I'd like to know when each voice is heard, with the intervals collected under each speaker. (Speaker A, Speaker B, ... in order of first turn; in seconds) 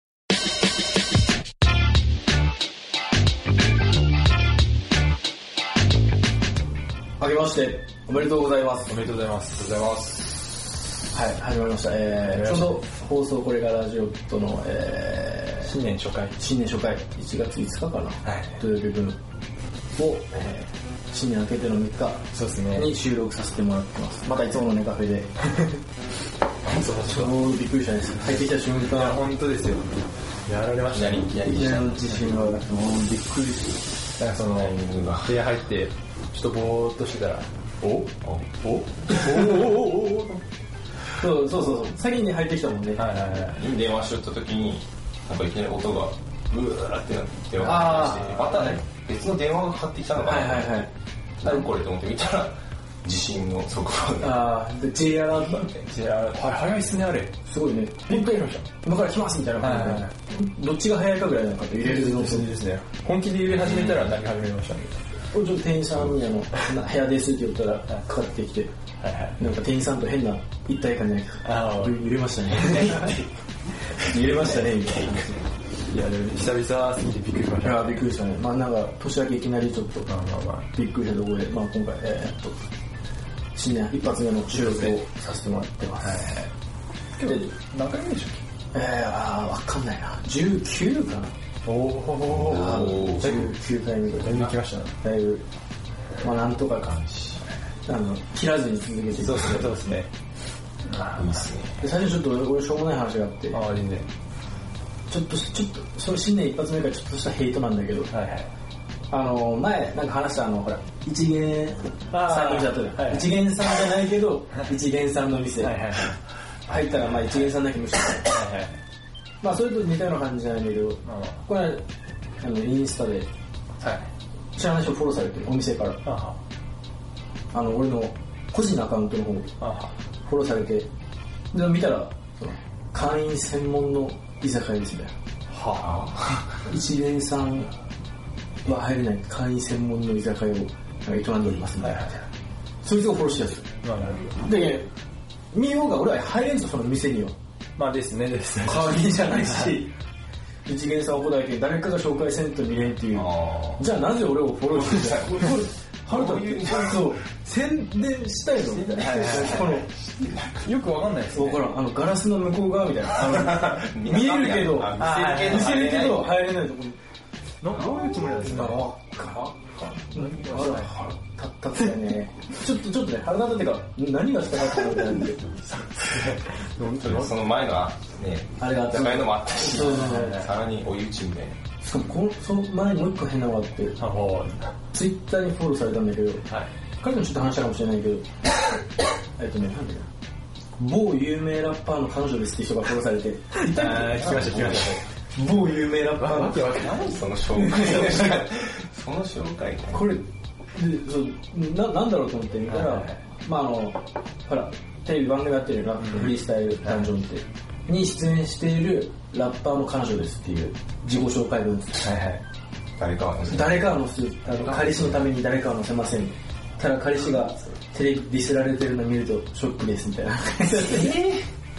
Speaker A: 7.2-8.9, 11.1-15.7, 16.4-19.2, 19.9-25.3, 27.0-29.2, 31.4-33.8, 41.1-43.0, 47.6-48.4, 50.2-50.9, 54.2-55.7, 57.4-62.5, 65.3-68.7, 69.4-73.2, 74.0-75.3, 77.6-80.1, 80.7-82.5, 83.5-86.3, 87.2-87.5, 88.7-91.3, 92.3-95.4, 96.2-96.9, 97.8-99.7, 101.8-103.6, 105.1-108.1, 109.1-115.8, 116.7-118.3, 119.4-121.8, 122.4-123.3, 124.5-126.0, 127.5-129.5, 130.2-130.9, 131.5-135.1, 136.7-137.7, 138.6-142.2, 142.8-143.7, 144.3-144.9, 145.5-147.3, 148.6-149.9, 150.7-159.9, 161.3-167.0, 168.3-175.5, 178.6-180.4, 181.8-184.0, 184.9-186.4, 187.0-188.2, 189.4-190.1, 190.8-194.3, 195.3-196.9, 197.6-198.4, 199.9-212.1, 213.5-221.2
Speaker B: 8.9-10.0, 12.2-12.8, 15.6-16.4, 18.2-18.6, 22.3-22.9, 26.7-27.3, 28.8-31.3, 34.2-40.4, 43.0-43.6, 47.6-48.7, 55.9-57.3, 58.1-58.6, 59.6-60.1, 61.8-65.0, 69.0-69.4, 71.4-72.0, 75.9-78.0, 80.1-80.7, 84.5-84.9, 86.0-86.5, 87.2-88.4, 91.7-93.5, 94.1-94.9, 99.2-100.1, 100.8-101.5, 103.5-104.1, 108.1-108.5, 112.1-113.4, 115.6-116.2, 118.3-118.8, 121.0-121.4, 123.8-124.1, 126.0-126.4, 129.6-129.9, 135.5-135.9, 141.8-142.1, 143.8-144.4, 147.8-149.8, 158.9-159.7, 160.6-161.7, 164.9-165.8, 167.6-168.9, 170.1-170.8, 175.8-177.3, 179.7-180.5, 184.0-184.7, 193.6-195.0, 195.5-198.1, 202.7-203.2, 206.0-207.0, 212.0-212.4
Speaker C: 9.7-10.9, 26.6-27.3, 30.9-32.2, 34.5-35.4, 38.2-38.5, 43.5-50.9, 51.4-55.9, 63.5-64.2, 72.5-75.5, 92.3-93.5, 96.8-97.4, 101.2-101.8, 135.8-136.6, 153.1-153.9, 154.7-157.2, 158.6-160.7, 163.1-166.4, 169.6-170.6, 177.0-181.6, 194.0-195.0, 196.8-200.2, 213.0-215.3, 217.2-217.7, 220.8-221.5